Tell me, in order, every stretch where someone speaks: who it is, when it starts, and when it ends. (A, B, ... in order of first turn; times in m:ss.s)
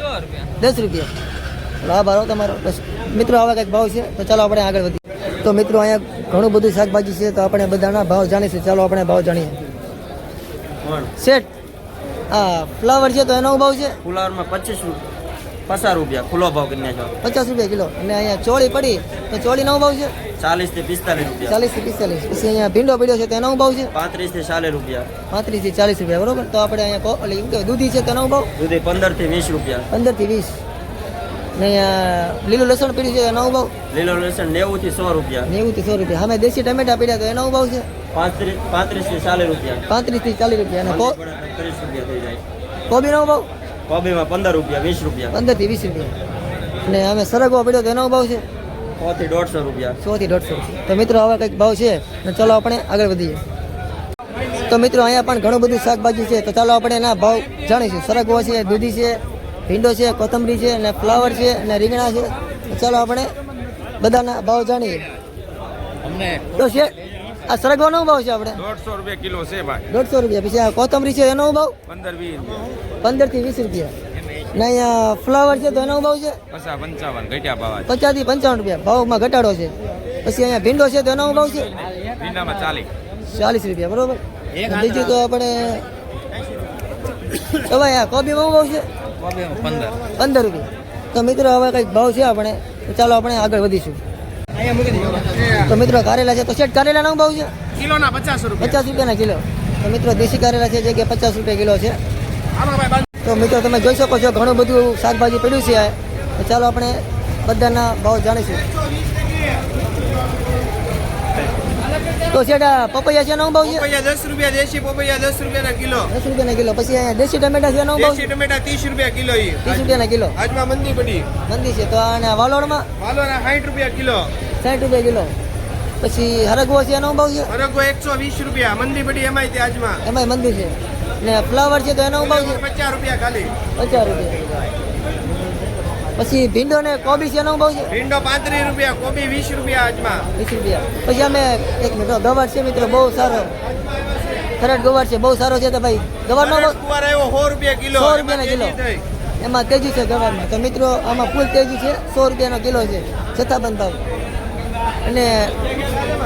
0:00.6-0:01.1 A
0:01.8-0:09.6 A
0:10.8-0:11.1 B
0:11.2-0:11.5 A
0:12.3-0:14.0 A
0:14.0-0:15.0 B
0:15.7-0:17.1 B
0:17.2-0:20.1 A
0:20.4-0:21.6 B
0:21.4-0:23.9 A
0:23.9-0:25.1 B
0:25.3-0:28.5 A
0:28.6-0:29.9 B
0:29.9-0:30.6 A
0:31.6-0:33.7 A
0:33.9-0:35.5 B
0:35.5-0:37.9 A
0:38.1-0:39.8 B
0:39.9-0:41.2 A
0:40.8-0:42.4 B
0:42.9-0:43.5 A
0:43.9-0:45.3 B
0:45.3-0:46.1 A
0:46.8-0:48.4 A
0:49.0-0:50.0 B
0:50.0-0:53.4 A
0:54.7-1:03.3 A
1:04.0-1:05.1 A
1:06.0-1:06.4 C
1:06.5-1:08.6 A
1:08.6-1:09.8 C
1:09.9-1:11.7 A
1:11.9-1:12.6 C
1:13.0-1:13.9 A
1:14.5-1:16.4 A
1:16.5-1:17.8 C
1:17.8-1:19.7 A
1:20.2-1:21.7 A
1:22.2-1:22.9 C
1:23.3-1:25.8 A
1:27.5-1:28.8 A
1:29.2-1:29.9 C
1:30.1-1:34.0 A
1:34.6-1:35.7 D
1:35.5-1:37.5 A
1:37.7-1:38.9 D
1:38.6-1:42.0 A
1:42.5-1:43.0 D
1:43.2-1:48.6 A
1:52.3-1:53.9 A
1:53.6-1:56.1 D
1:56.1-1:58.3 A
1:58.0-2:01.3 D
1:59.6-2:00.3 A
2:01.5-2:02.9 A
2:03.0-2:04.3 D
2:04.6-2:05.3 A
2:06.0-2:07.5 A
2:07.5-2:10.0 D
2:10.0-2:12.6 A
2:12.2-2:13.5 D
2:13.8-2:14.4 A
2:16.2-2:17.9 A
2:17.9-2:20.3 D
2:20.4-2:23.5 A
2:24.6-2:26.8 A
2:26.4-2:29.0 D
2:27.9-2:28.8 A
2:29.4-2:34.0 A
2:35.0-2:35.6 A